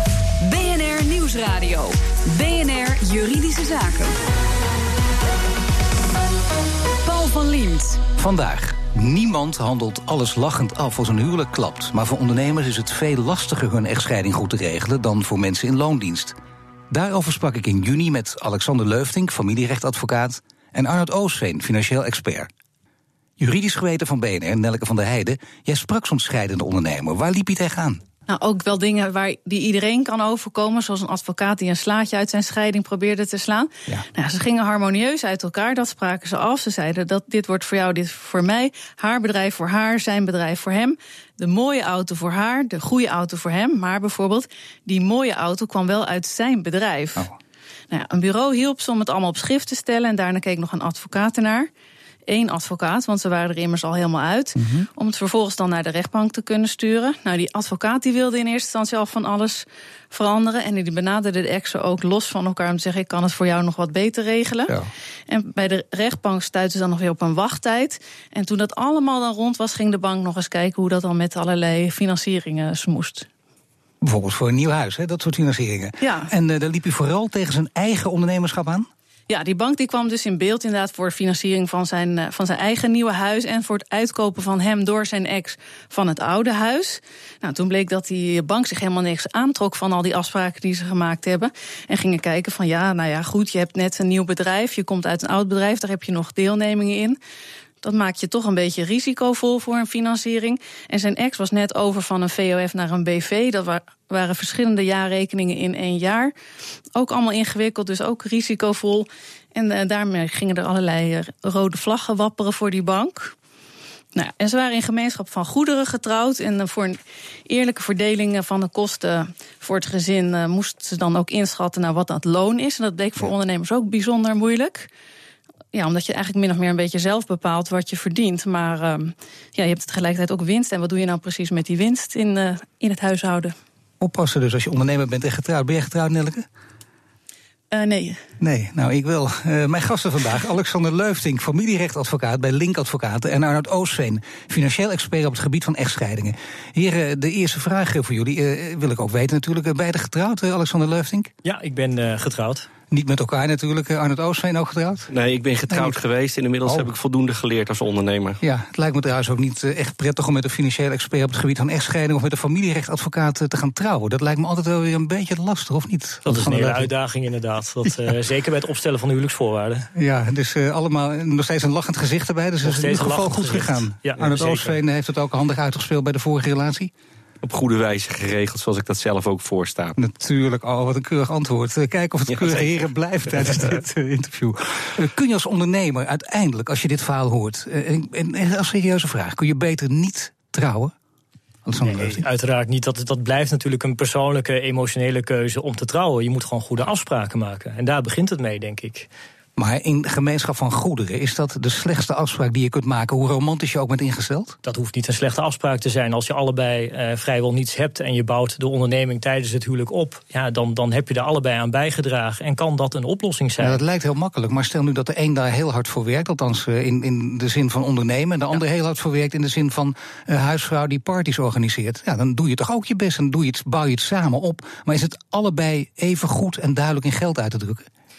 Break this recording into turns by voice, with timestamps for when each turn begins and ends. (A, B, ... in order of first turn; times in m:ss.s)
0:00.4-0:04.2 A
0:07.0-0:08.0 A
0:08.2-0:16.3 B
0:16.9-0:22.5 B
0:23.4-0:28.0 B
0:28.3-0:47.3 C
0:47.9-0:51.7 C
0:52.3-1:04.8 C
0:54.6-0:54.9 B
1:05.3-1:13.3 C
1:14.0-1:18.9 B
1:16.0-1:16.3 C
1:19.3-1:37.2 C
1:37.8-1:46.3 C
1:46.9-1:53.3 C
1:54.1-2:04.9 C
2:05.7-2:13.5 C
2:14.0-2:16.4 B
2:17.7-2:18.2 C
2:18.4-2:31.3 B
2:31.4-2:32.7 D
2:32.9-2:35.1 B
2:35.1-2:38.4 E
2:35.7-2:36.0 B
2:36.6-2:36.9 B
2:38.4-2:46.9 B
2:46.2-2:49.9 D
2:49.9-2:56.9 B
2:52.6-2:54.8 D
2:57.4-3:00.0 E
3:00.0-3:10.9 B
3:02.3-3:02.7 E
3:11.6-3:12.2 B
3:11.8-3:19.1 D
3:19.6-3:24.6 B
3:24.6-3:33.8 D
3:33.6-3:47.9 B